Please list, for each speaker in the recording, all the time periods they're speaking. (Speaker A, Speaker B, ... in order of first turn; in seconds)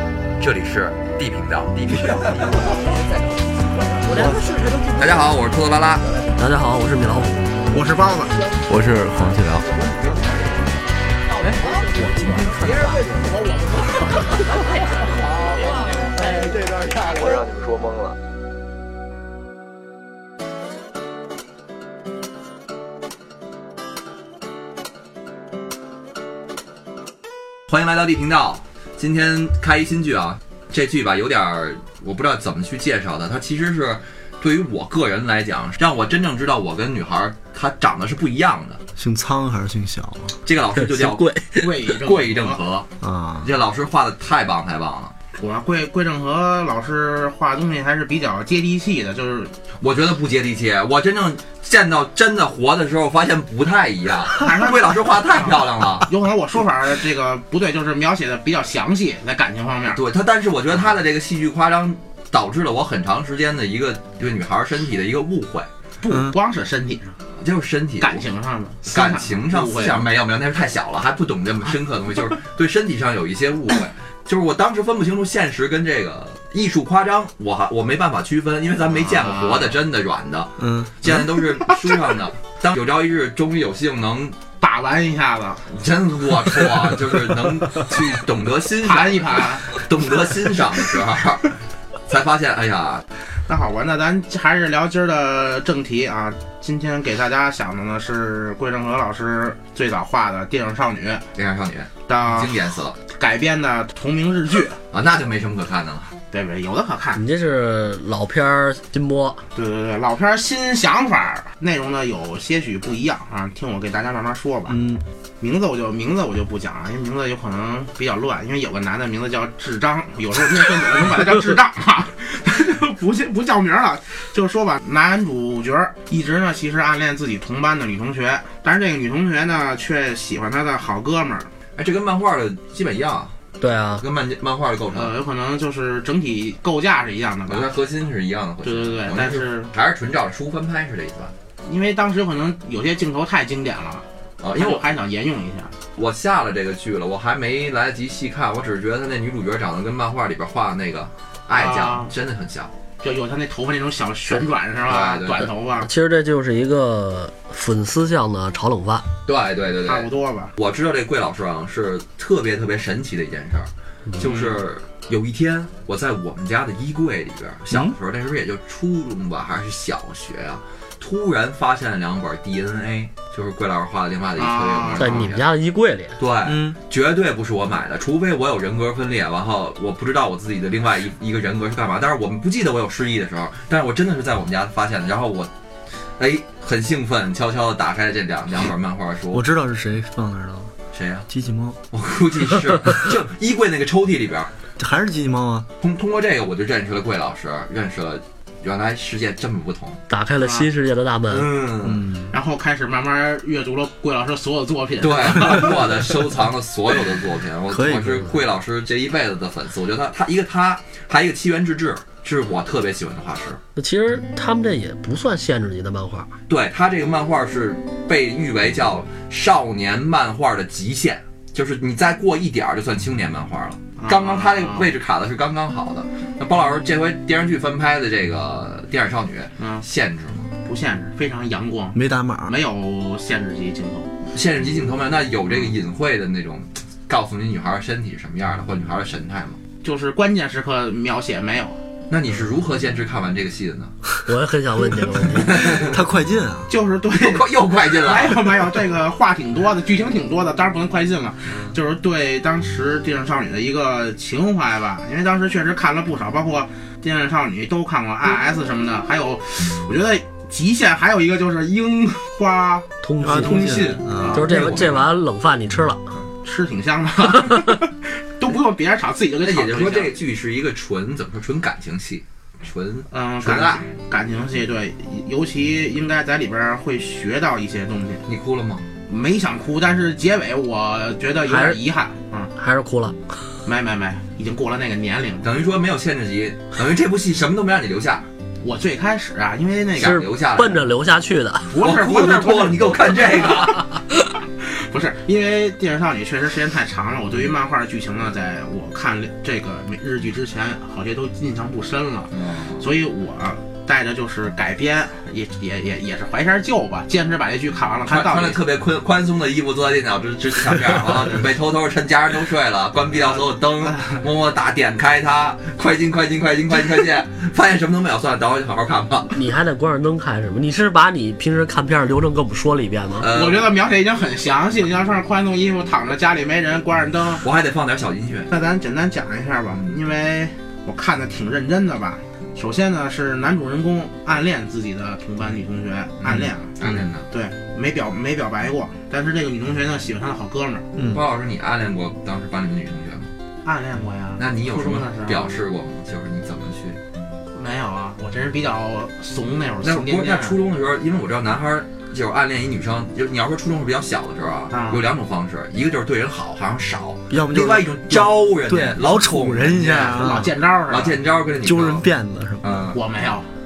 Speaker A: 0.4-2.8, 5.0-6.0, 27.7-38.8, 40.4-41.3, 41.9-42.9, 43.4-45.1, 49.8-56.1, 59.9-65.7, 67.4-68.2, 68.8-84.4, 85.7-91.5, 92.1-93.0, 101.3-103.0, 104.9-106.1, 131.8-133.3, 134.0-135.1, 137.5-141.3, 144.4-144.8, 145.9-152.7, 154.8-155.5, 159.2-175.4, 176.2-185.5, 186.2-189.4, 190.9-191.2, 191.9-194.5, 195.8-200.0, 201.3-202.0, 205.0-213.6, 216.5-230.5, 234.3-239.6, 242.1-243.9, 245.3-246.0, 247.1-248.5, 264.3-265.1, 269.4-273.8, 278.2-278.9, 285.4-288.2, 290.0-290.8, 291.8-293.8, 302.3-302.8, 308.1-319.3, 323.1-323.7, 327.4-328.5, 336.2-337.2, 341.1-343.3, 344.4-347.0, 349.8-362.1, 362.6-363.0
Speaker B: 4.1-4.8, 6.4-7.5, 11.7-13.1, 40.8-41.7, 107.2-109.4, 133.6-134.0, 155.8-159.1, 175.0-176.2, 200.1-201.5, 213.8-216.3, 244.2-245.9, 263.0-266.0, 281.4-281.8, 282.6-283.2, 290.0-291.7, 319.3-323.3
Speaker C: 4.1-4.6, 8.7-9.8, 17.0-18.1, 39.0-40.4, 43.0-43.5, 66.1-66.3, 80.6-81.2, 114.7-115.0, 176.4-176.8, 189.3-190.7, 191.3-191.8, 194.8-195.7, 201.8-202.3, 207.7-208.4, 231.9-232.5, 245.8-246.7, 263.2-264.5, 340.9-341.2, 357.3-360.5, 361.6-362.8
Speaker D: 7.7-8.3, 13.2-13.8, 41.6-42.6, 45.3-49.5, 54.4-60.0, 66.0-67.2, 68.0-70.0, 79.0-79.8, 84.6-85.7, 88.8-89.8, 93.5-101.2, 102.1-102.6, 103.1-104.8, 106.3-107.2, 109.5-114.8, 115.4-131.5, 134.9-137.7, 138.6-139.7, 141.6-145.7, 151.5-152.1, 153.0-155.9, 159.8-160.5, 164.2-164.5, 174.4-175.3, 200.4-200.7, 202.3-205.8, 224.0-224.9, 229.6-229.8, 230.6-234.1, 239.8-241.8, 246.7-264.8, 266.4-270.1, 273.1-278.2, 279.1-282.5, 283.6-285.5, 288.6-290.2, 291.7-293.5, 294.6-308.6, 313.1-314.2, 323.3-327.4, 328.5-340.9, 343.6-345.5, 347.5-350.6, 354.7-355.0, 359.8-361.2, 362.9-363.5